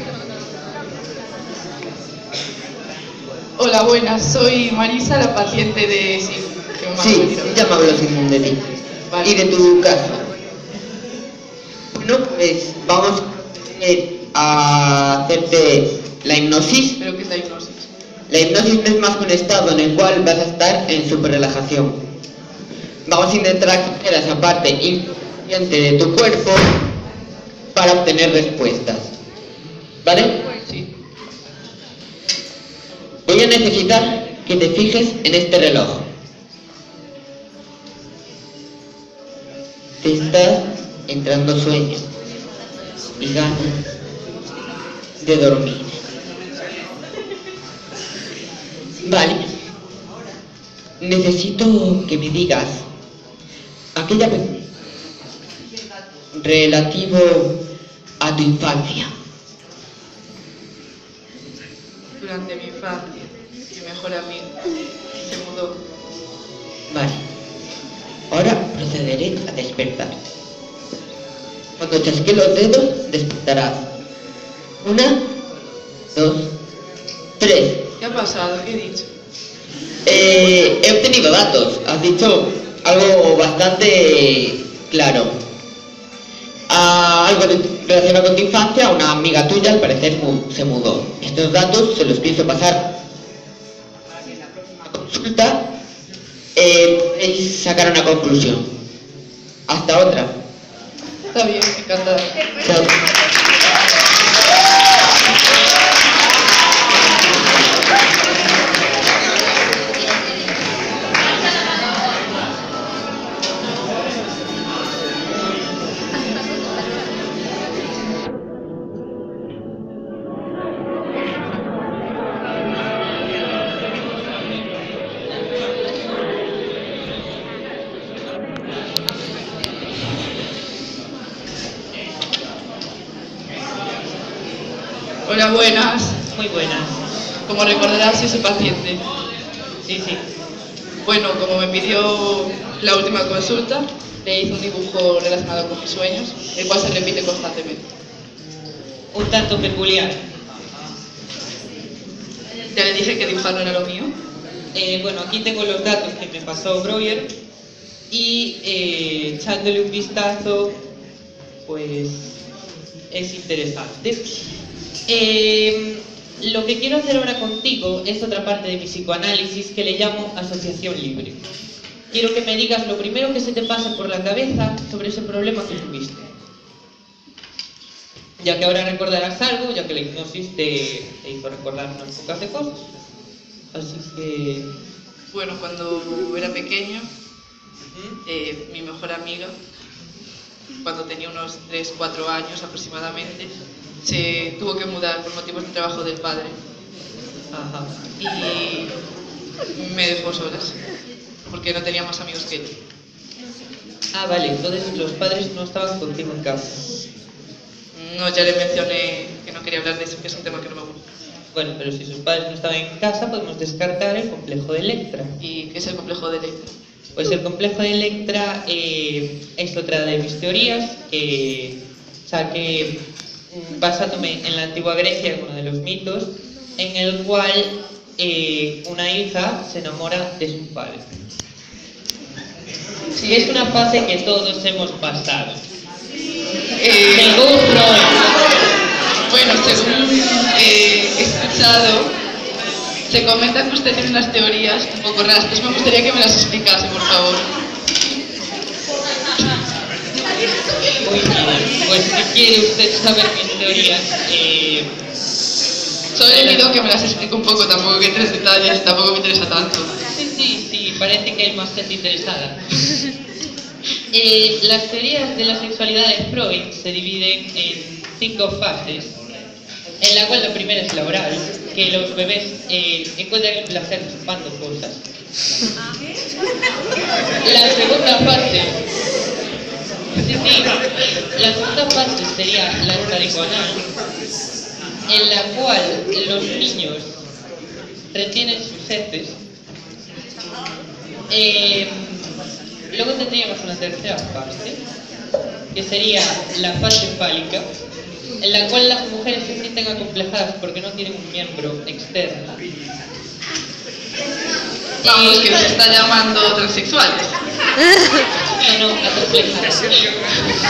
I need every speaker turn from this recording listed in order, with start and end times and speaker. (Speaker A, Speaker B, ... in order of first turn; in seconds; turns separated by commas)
Speaker A: 3.6-7.6, Speaker B: 7.0-8.6, Speaker A: 9.1-9.4, Speaker B: 9.2-10.2, Speaker B: 11.9-13.2, Speaker B: 13.8-16.9, Speaker A: 17.0-17.9, Speaker B: 18.3-22.0, Speaker B: 23.1-26.7, Speaker B: 27.7-29.1, Speaker B: 30.0-30.4, Speaker A: 30.6-30.9, Speaker B: 33.3-36.0, Speaker B: 40.0-42.0, Speaker B: 43.2-43.8, Speaker B: 45.2-46.0, Speaker B: 49.0-49.4, Speaker B: 51.0-52.8, Speaker B: 54.0-54.5, Speaker B: 56.3-57.5, Speaker B: 58.2-59.1, Speaker A: 62.2-64.5, Speaker A: 65.2-65.8, Speaker B: 66.9-67.2, Speaker B: 68.3-70.1, Speaker B: 71.8-73.8, Speaker B: 74.8-75.2, Speaker B: 76.1-76.5, Speaker B: 77.4-77.8, Speaker A: 78.0-79.1, Speaker B: 80.1-85.3, Speaker B: 86.7-92.8, Speaker B: 94.5-95.6, Speaker B: 96.6-98.7, Speaker B: 99.7-100.3, Speaker A: 101.3-102.3, Speaker B: 102.6-102.9, Speaker A: 135.3-136.2, Speaker C: 136.3-137.0, Speaker A: 137.5-139.0, Speaker C: 139.9-140.2, Speaker A: 141.0-147.8, Speaker C: 149.1-150.2, Speaker A: 152.7-154.1, Speaker C: 154.7-157.3, Speaker C: 158.1-160.7, Speaker C: 161.7-162.4, Speaker C: 163.1-164.3, Speaker C: 165.1-171.4, Speaker C: 172.1-176.3, Speaker C: 178.4-182.9, Speaker C: 183.7-184.7, Speaker A: 185.3-187.1, Speaker C: 187.9-188.2, Speaker A: 188.3-189.5, Speaker A: 190.8-196.5, Speaker C: 197.5-197.9, Speaker A: 198.2-198.9, Speaker A: 199.8-200.8, Speaker A: 201.5-202.7, Speaker C: 204.1-206.8, Speaker A: 207.9-211.0, Speaker C: 211.5-215.3, Speaker A: 215.4-216.7, Speaker C: 217.2-221.8, Speaker C: 222.3-223.0, Speaker C: 223.5-231.0, Speaker A: 233.1-233.7, Speaker C: 233.2-235.6, Speaker A: 236.8-237.4, Speaker C: 237.1-238.2, Speaker A: 239.3-242.1, Speaker A: 243.1-247.5, Speaker C: 251.0-254.9, Speaker A: 256.1-259.9, Speaker C: 256.3-256.7, Speaker C: 260.1-262.6, Speaker C: 264.1-269.1, Speaker C: 270.0-275.0, Speaker C: 277.4-278.8, Speaker C: 280.2-280.7, Speaker C: 281.4-283.8, Speaker C: 285.1-287.1, Speaker C: 288.1-289.4, Speaker C: 291.3-292.4, Speaker C: 292.9-294.8, Speaker C: 295.7-297.6, Speaker C: 298.4-302.6, Speaker C: 305.0-305.8, Speaker A: 305.0-307.4, Speaker C: 308.6-310.0